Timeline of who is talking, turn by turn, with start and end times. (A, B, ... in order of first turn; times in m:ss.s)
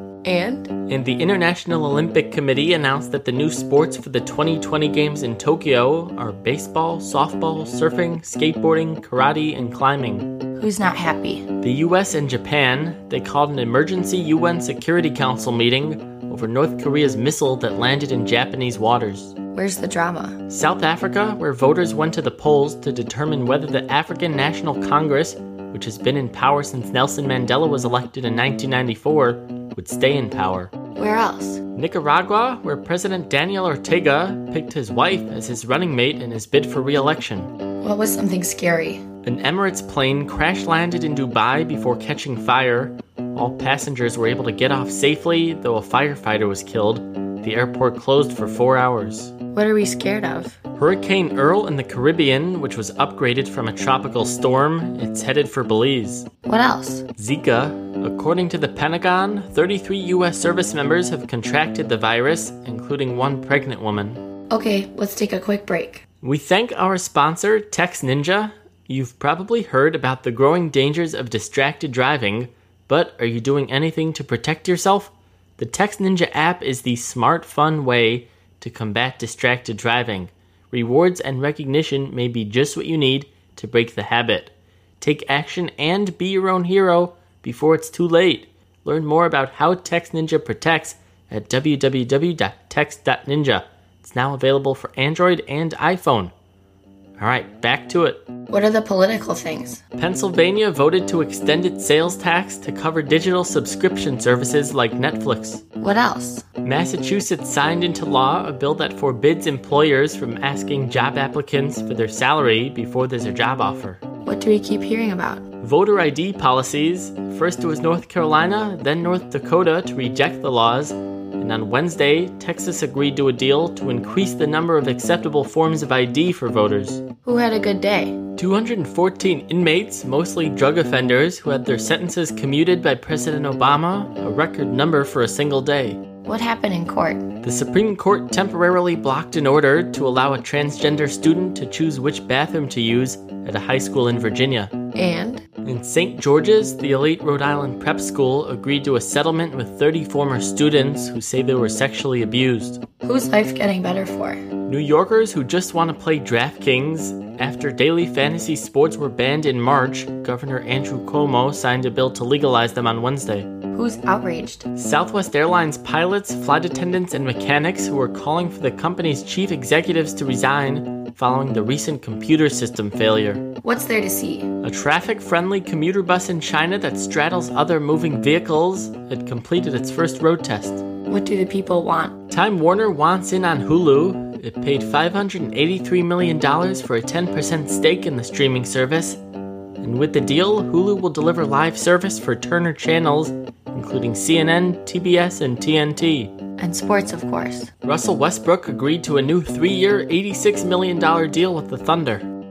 0:00.2-0:00.7 A
0:00.9-0:10.3 B
0:10.6-0:11.5 A
0:11.6-0:19.3 B
0:19.5-0:20.4 A
0:20.5-0:30.7 B
0:31.0-0:31.6 A
0:31.7-0:37.5 B
0:37.8-0:39.0 A
0:39.2-0:49.3 B
0:49.5-0:50.6 A
0:50.8-0:56.3 B
0:56.4-0:57.0 A
0:57.1-1:04.2 B
1:04.5-1:06.0 A
1:06.2-1:36.3 B
1:37.2-1:38.2 B
1:38.5-1:39.8 A
1:40.0-1:45.6 B
1:45.8-1:46.4 A
1:46.6-1:54.0 B
1:54.2-1:55.4 A
1:55.6-2:07.0 B
2:07.2-2:08.2 A
2:08.4-2:16.0 B
2:16.2-2:17.3 A
2:17.4-2:24.7 B
2:24.9-2:25.4 A
2:25.6-2:32.8 B
2:33.0-2:34.4 A
2:34.7-2:43.5 B
2:43.7-2:44.6 A
2:44.7-2:53.5 B
2:53.6-2:54.5 A
2:54.6-3:00.8 B
3:01.1-3:02.2 A
3:02.3-3:09.2 B
3:09.8-3:16.3 B
3:16.6-3:17.7 A
3:17.8-3:22.3 B